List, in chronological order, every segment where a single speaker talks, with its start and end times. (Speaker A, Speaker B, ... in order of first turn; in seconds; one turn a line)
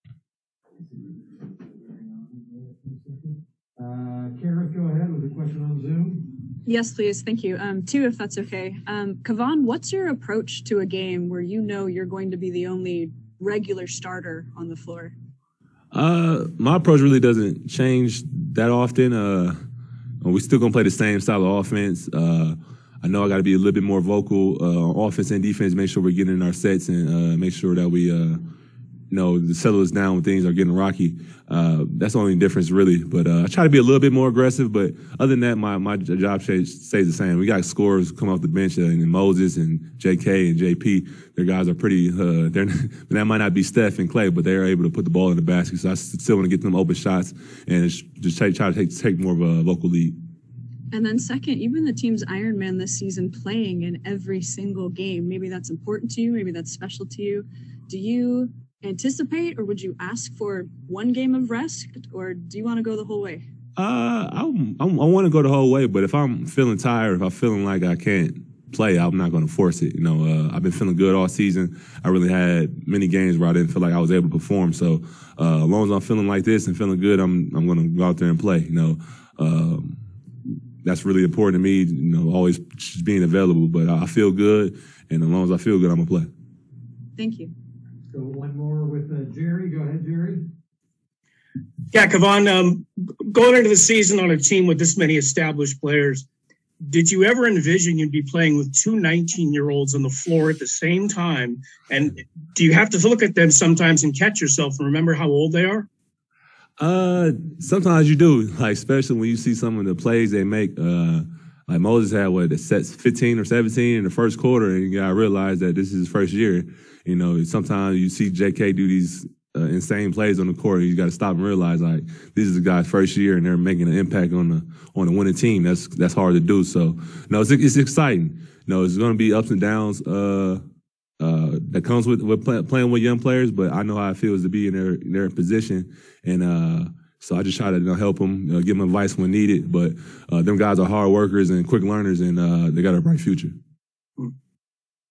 Speaker A: 0.8-6.4
Speaker B: 6.6-15.1
Speaker C: 15.9-19.6
Speaker C: 20.2-28.4
Speaker C: 29.1-50.1
Speaker B: 50.9-63.4
Speaker C: 63.8-80.0
Speaker C: 80.8-86.3
Speaker B: 87.1-87.5
Speaker A: 88.1-90.5
Speaker D: 91.9-96.2
Speaker D: 96.8-105.9
Speaker C: 106.8-130.6
Speaker C: 131.2-143.6